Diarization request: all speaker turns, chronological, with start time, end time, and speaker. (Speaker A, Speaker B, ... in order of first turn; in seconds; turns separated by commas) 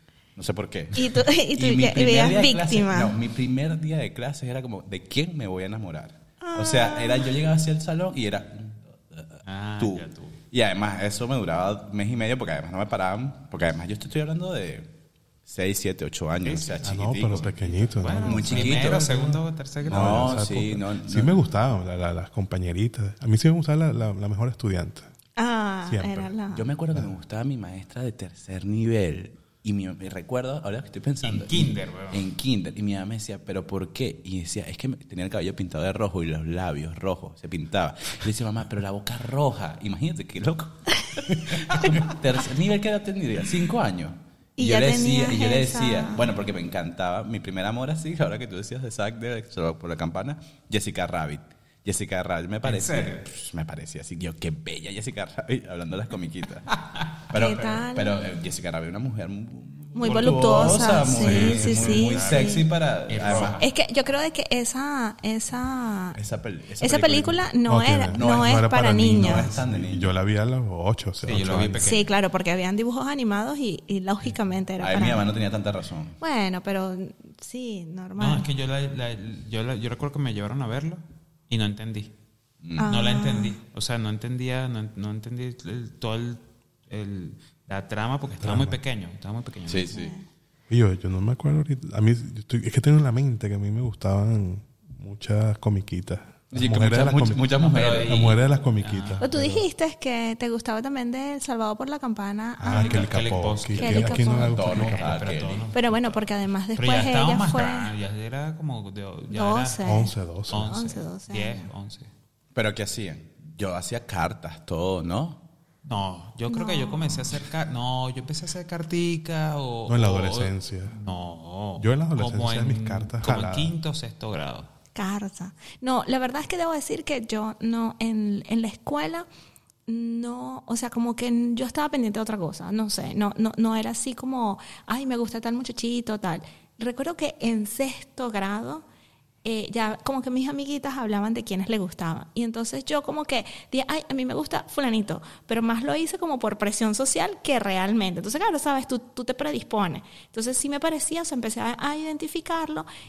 Speaker A: 0.4-14.9, Speaker B: 0.9-3.1, Speaker B: 6.4-7.3, Speaker C: 9.4-10.4, Speaker A: 15.5-19.3, Speaker C: 16.4-20.5, Speaker D: 16.8-25.1, Speaker A: 19.9-21.4, Speaker B: 25.4-26.7, Speaker D: 25.9-26.3, Speaker A: 26.5-56.7, Speaker C: 31.2-32.2, Speaker B: 44.6-46.2, Speaker C: 52.6-53.3, Speaker C: 56.7-57.1, Speaker A: 57.3-63.6, Speaker B: 57.3-58.2, Speaker B: 59.9-62.7, Speaker C: 60.0-63.6, Speaker B: 63.5-66.2, Speaker A: 66.2-67.5, Speaker B: 66.8-69.5, Speaker D: 67.7-71.9, Speaker A: 68.1-68.6, Speaker A: 69.2-70.1, Speaker C: 71.2-72.1, Speaker B: 71.8-75.3, Speaker A: 74.8-76.2, Speaker B: 76.2-78.5, Speaker C: 78.2-82.1, Speaker A: 82.6-82.9, Speaker C: 82.8-90.0, Speaker B: 82.8-83.6, Speaker D: 88.4-88.8, Speaker A: 89.7-90.1, Speaker B: 89.9-90.2, Speaker D: 90.7-99.7, Speaker A: 96.5-98.4, Speaker C: 97.6-99.3, Speaker B: 99.2-103.0, Speaker D: 102.6-105.1, Speaker C: 102.7-106.2, Speaker B: 103.8-104.6, Speaker A: 103.8-105.7, Speaker B: 105.7-107.9, Speaker C: 106.8-112.1, Speaker B: 109.3-111.7, Speaker D: 109.8-110.8, Speaker A: 112.5-115.4, Speaker C: 115.8-124.7, Speaker B: 116.5-117.3, Speaker D: 119.9-121.0, Speaker D: 121.8-123.8, Speaker B: 125.0-129.3, Speaker B: 129.9-138.8, Speaker B: 139.4-152.9